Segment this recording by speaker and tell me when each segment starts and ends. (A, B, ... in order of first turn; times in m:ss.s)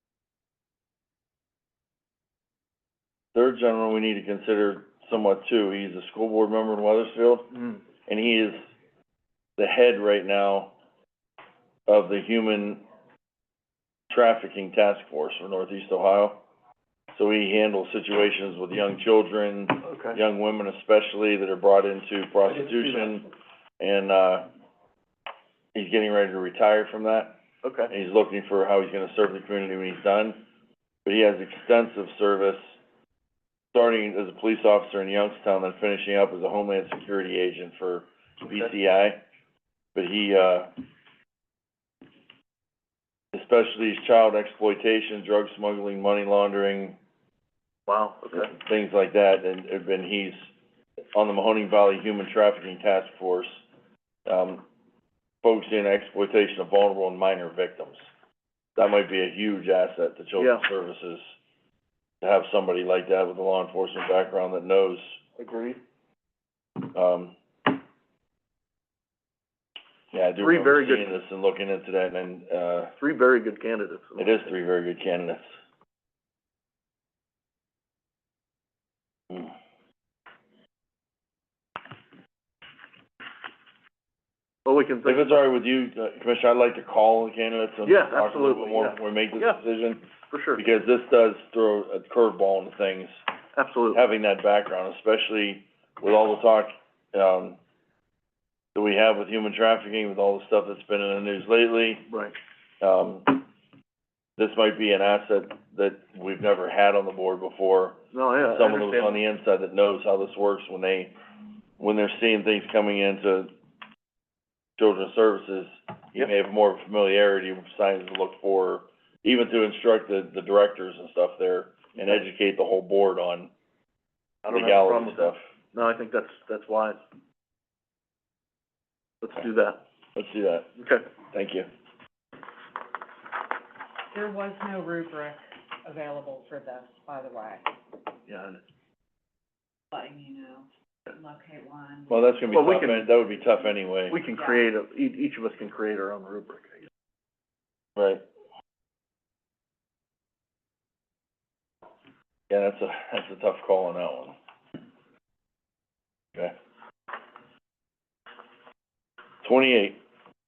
0:03.3-0:07.5 A
0:07.5-0:07.8 B
0:08.1-0:08.6 A
0:09.6-0:10.7 A
0:11.9-0:12.8 A
0:14.1-0:16.4 A
0:17.1-0:23.3 A
0:19.8-0:20.2 B
0:22.6-0:23.1 B
0:23.8-0:24.5 A
0:25.7-0:27.4 A
0:27.6-0:27.9 B
0:27.9-0:30.4 A
0:31.0-0:32.7 A
0:33.7-0:39.2 A
0:39.9-0:40.7 A
0:43.3-0:47.0 A
0:47.9-0:48.5 B
0:48.3-0:50.5 A
0:51.1-0:53.6 A
0:54.2-0:54.6 A
0:55.4-0:58.0 A
0:58.8-1:01.2 A
1:00.4-1:00.6 B
1:02.2-1:05.2 A
1:05.4-1:05.8 B
1:06.8-1:07.3 A
1:10.1-1:12.9 A
1:10.4-1:11.2 B
1:13.0-1:14.5 B
1:14.2-1:15.4 A
1:24.6-1:25.4 B
1:25.0-1:30.0 A
1:27.8-1:29.6 B
1:30.3-1:30.6 B
1:30.6-1:33.2 A
1:33.5-1:34.0 B
1:33.9-1:37.6 A
1:38.7-1:42.0 A
1:42.1-1:42.3 B
1:42.8-1:43.4 A
1:44.4-1:51.1 A
1:48.1-1:49.2 B
1:51.8-1:53.5 A
1:54.8-2:03.5 A
2:04.4-2:07.0 B
2:04.5-2:05.4 A
2:09.2-2:09.8 B
2:10.1-2:10.7 A
2:10.8-2:11.1 B
2:11.3-2:11.7 A
2:14.1-2:17.7 C
2:18.3-2:18.6 B
2:19.9-2:22.5 C
2:22.1-2:24.2 A
2:22.5-2:23.1 B
2:24.1-2:26.8 B
2:24.3-2:24.7 C
2:28.0-2:28.2 A
2:32.5-2:34.4 A
2:39.4-2:40.0 A